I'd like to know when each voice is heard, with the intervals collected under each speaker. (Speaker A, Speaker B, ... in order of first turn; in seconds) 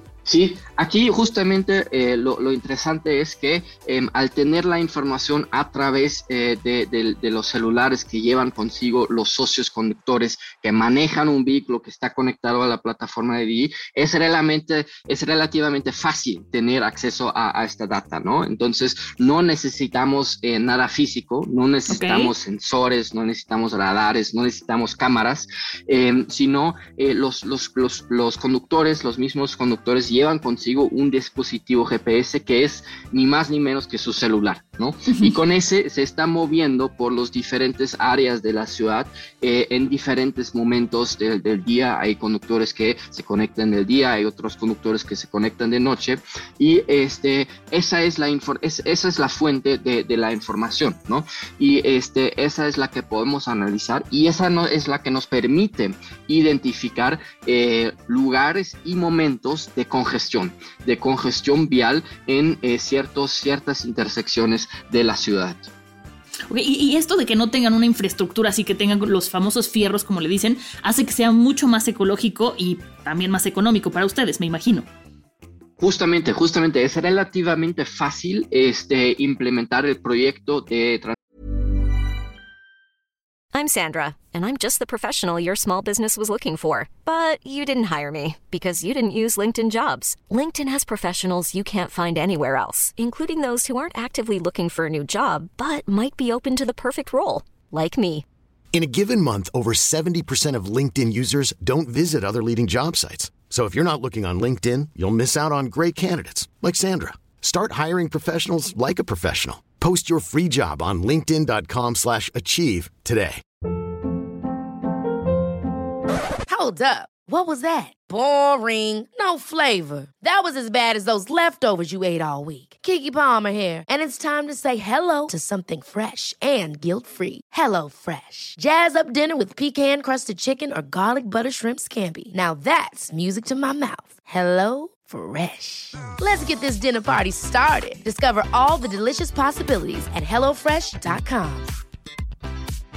Speaker A: 0.3-65.7, 75.8-81.1
Speaker B: 21.9-22.3, 66.5-74.9
Speaker C: 83.5-98.2
Speaker D: 98.7-113.4
Speaker E: 116.5-141.7